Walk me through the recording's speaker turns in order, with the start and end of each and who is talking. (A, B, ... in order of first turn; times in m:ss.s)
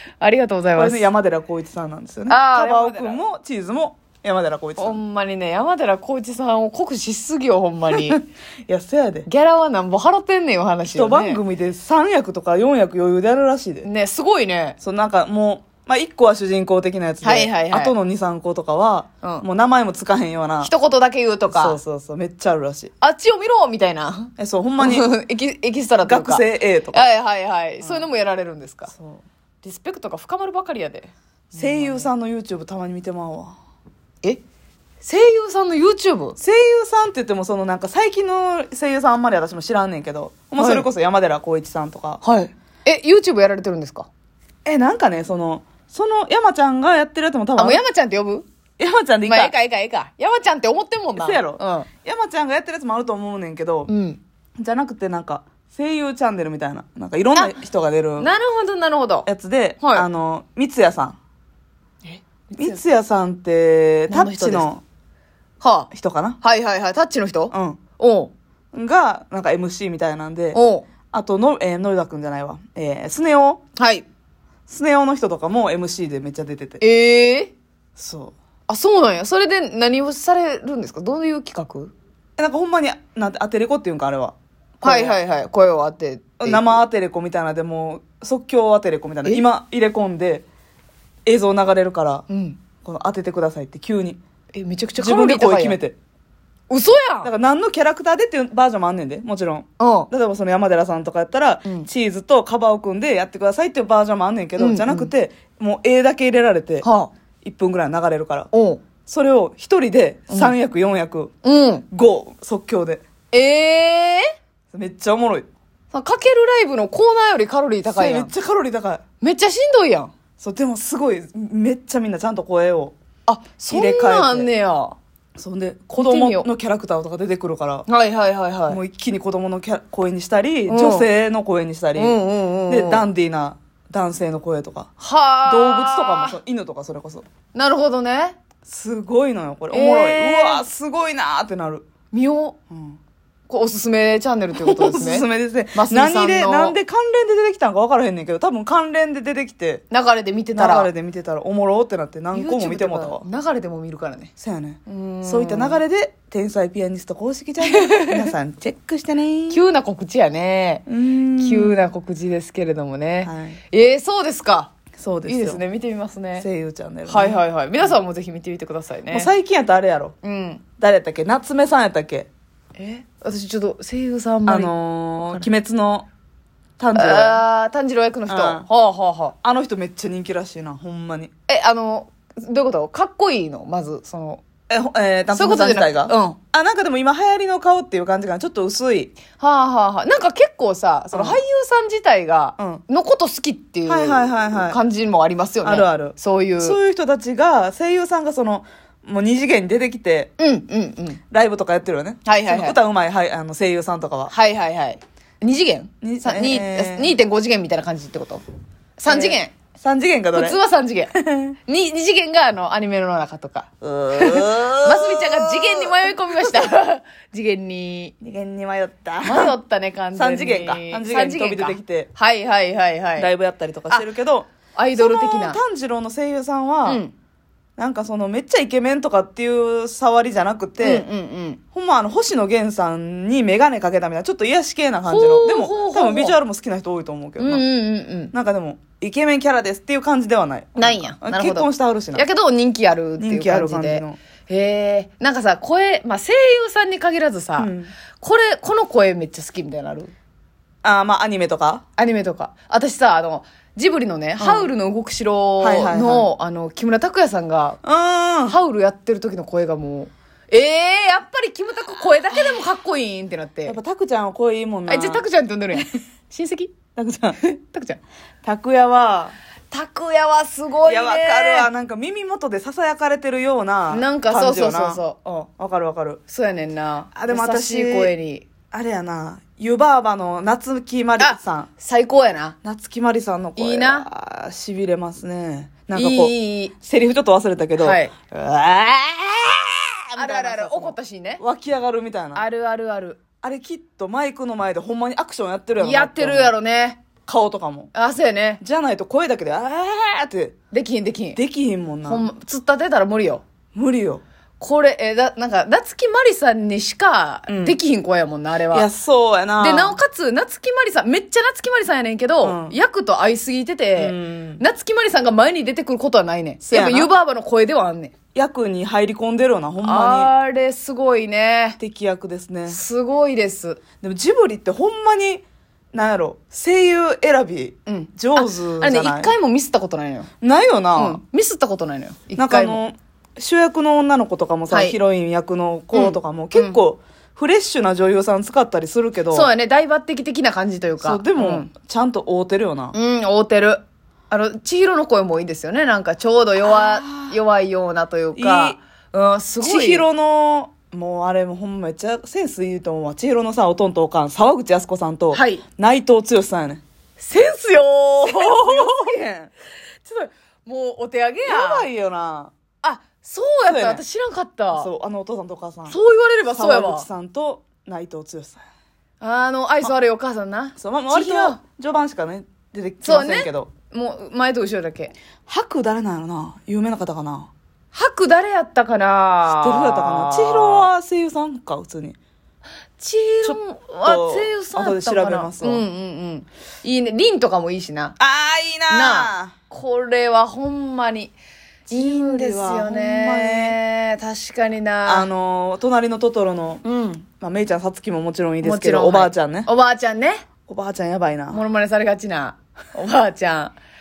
0:00.2-0:01.1 A
0:00.7-0:05.0 B
0:02.3-0:03.2 A
0:04.8-0:08.2 A
0:07.9-0:09.3 B
0:09.2-0:11.4 A
0:10.8-0:13.9 B
0:13.8-0:14.8 A
0:14.8-0:20.7 B
0:17.2-0:17.9 A
0:20.6-0:21.8 A
0:21.5-0:22.9 B
0:23.0-0:28.9 A
0:24.4-0:25.1 B
0:26.0-0:27.0 B
0:27.8-0:28.1 B
0:28.9-0:29.2 B
0:29.6-0:32.1 A
0:31.5-0:33.6 B
0:35.0-0:36.4 A
0:36.4-0:42.2 B
0:40.6-0:40.9 A
0:42.2-0:44.1 A
0:44.6-0:47.8 B
0:47.6-0:48.4 A
0:48.8-0:49.5 B
0:49.2-0:51.9 A
0:51.2-0:53.9 B
0:53.9-0:54.2 A
0:54.6-0:58.3 B
0:58.2-0:59.3 A
0:59.2-1:01.2 B
0:59.8-1:00.1 A
1:02.0-1:02.8 A
1:02.6-1:04.8 B
1:04.1-1:04.7 A
1:05.6-1:05.9 A
1:05.9-1:06.4 B
1:06.4-1:08.3 A
1:07.5-1:07.8 B
1:08.7-1:10.6 B
1:10.5-1:10.8 A
1:11.1-1:13.6 B
1:13.8-1:14.0 A
1:14.7-1:16.8 B
1:16.8-1:17.5 A
1:18.0-1:18.3 B
1:18.7-1:21.9 A
1:22.4-1:25.2 B
1:24.8-1:26.8 A
1:26.4-1:30.4 B
1:31.2-1:32.2 B
1:32.3-1:32.6 A
1:32.8-1:34.2 B
1:34.5-1:35.8 A
1:35.0-1:36.0 B
1:36.7-1:37.3 A
1:37.2-1:46.9 B
1:39.8-1:40.1 A
1:44.6-1:45.1 A
1:46.8-1:47.1 A
1:47.4-1:48.5 B
1:48.5-1:48.8 A
1:49.1-1:51.3 B
1:50.3-1:50.6 A
1:51.4-1:51.8 A
1:51.9-1:53.0 B
1:53.3-1:54.3 A
1:54.7-1:55.5 B
1:55.9-1:58.3 A
1:57.9-1:59.0 B
1:59.2-2:00.1 A
2:00.4-2:02.9 B
2:03.3-2:05.0 A
2:03.7-2:04.5 B
2:05.4-2:07.8 B
2:06.0-2:06.5 A
2:07.9-2:08.8 A
2:08.7-2:14.9 B
2:10.7-2:11.1 A
2:12.0-2:13.0 A
2:15.0-2:16.4 A
2:15.4-2:17.2 B
2:17.5-2:18.4 A
2:18.6-2:21.8 B
2:19.7-2:20.6 A
2:22.1-2:22.6 A
2:22.7-2:23.0 B
2:23.5-2:26.8 A
2:24.6-2:29.8 B
2:29.9-2:30.9 A
2:30.5-2:33.2 B
2:32.3-2:34.3 A
2:34.4-2:39.6 B
2:34.8-2:35.8 A
2:37.7-2:38.3 A
2:39.5-2:44.7 A
2:40.9-2:41.8 B
2:43.2-2:43.6 B
2:45.0-2:45.6 B
2:45.2-2:46.4 A
2:46.4-2:48.0 B
2:47.1-2:49.3 A
2:49.1-2:50.1 B
2:50.2-2:50.6 A
2:50.8-2:52.3 B
2:52.8-2:55.5 A
2:54.4-2:56.1 B
2:56.8-2:57.4 B
2:56.9-2:59.3 A
2:58.3-2:58.6 B
2:59.4-3:01.3 B
3:01.5-3:04.4 A
3:04.7-3:09.1 B
3:05.3-3:06.4 A
3:09.4-3:16.8 A
3:11.1-3:11.4 B
3:12.6-3:12.8 B
3:13.9-3:14.8 B
3:15.6-3:20.3 B
3:20.4-3:21.2 A
3:21.3-3:24.3 B
3:22.2-3:22.8 A
3:24.3-3:28.4 A
3:26.0-3:27.1 B
3:29.0-3:29.5 A
3:29.1-3:30.6 B
3:30.3-3:31.1 A
3:31.1-3:31.6 B
3:31.7-3:38.1 A
3:33.8-3:36.7 B
3:38.2-3:39.6 B
3:39.2-3:43.3 A
3:40.1-3:42.1 B
3:43.2-3:47.0 B
3:44.7-3:45.6 A
3:46.8-3:47.1 A
3:47.8-3:51.1 B
3:50.8-3:51.6 A
3:51.7-3:57.6 B
3:55.1-3:56.4 A
3:57.4-3:58.3 A
3:58.3-4:02.2 B
4:00.8-4:10.1 A
4:03.2-4:04.2 B
4:07.6-4:07.9 B
4:10.8-4:11.8 B
4:12.0-4:17.8 A
4:14.4-4:14.7 B
4:15.6-4:16.3 B
4:17.8-4:18.6 B
4:18.4-4:23.8 A
4:23.6-4:25.2 B
4:24.9-4:26.7 A
4:27.0-4:27.4 B
4:27.4-4:28.0 A
4:28.4-4:29.4 B
4:29.7-4:31.7 A
4:30.8-4:35.0 B
4:33.9-4:35.5 A
4:35.6-4:36.2 B
4:36.3-4:38.5 A
4:37.1-4:38.1 B
4:38.7-4:41.7 B
4:41.2-4:42.6 A
4:42.6-4:52.4 B
4:43.6-4:44.1 A
4:45.9-4:46.7 A
4:47.8-4:48.1 A
4:50.2-4:51.4 A
4:52.3-4:53.2 A
4:53.4-4:56.6 B
4:55.8-4:57.0 A
4:57.2-4:57.9 B
4:57.9-4:58.6 A
4:58.6-5:00.6 B
5:00.7-5:01.4 A
5:01.3-5:02.3 B
5:02.0-5:03.4 A
5:03.7-5:04.2 B
5:04.6-5:08.9 A
5:07.5-5:07.8 B
5:08.7-5:10.0 B
5:09.6-5:18.1 A
5:12.4-5:12.8 B
5:14.0-5:14.6 B
5:16.7-5:17.1 B
5:18.3-5:20.3 B
5:19.8-5:21.8 A
5:21.8-5:22.8 B
5:22.7-5:23.8 A
5:24.0-5:29.3 B
5:27.9-5:30.3 A
5:30.4-5:31.2 B
5:30.9-5:32.8 A
5:32.4-5:39.5 B
5:34.7-5:35.0 A
5:35.9-5:36.8 A
5:39.3-5:41.7 A
5:41.0-5:42.9 B
5:42.9-5:50.1 A
5:46.6-5:47.4 B
5:48.3-5:48.8 B
5:49.6-5:56.8 B
5:55.3-5:55.6 A
5:57.2-5:59.2 A
5:58.2-5:59.5 B
6:00.0-6:01.9 A
6:01.4-6:02.5 B
6:02.8-6:04.9 A
6:03.7-6:04.0 B
6:04.7-6:06.0 B
6:05.9-6:07.1 A
6:06.5-6:08.6 B
6:09.2-6:11.6 A
6:10.8-6:13.7 B
6:13.0-6:15.1 A
6:15.5-6:17.5 B
6:17.9-6:20.9 A
6:19.5-6:22.2 B
6:23.0-6:28.2 A
6:23.4-6:25.8 B
6:28.2-6:29.5 B
6:28.9-6:31.3 A
6:31.9-6:33.8 B
6:31.9-6:35.3 A
6:35.0-6:39.7 B
6:36.8-6:37.2 A
6:38.6-6:40.4 A
6:40.7-6:41.6 B
6:41.5-6:43.7 A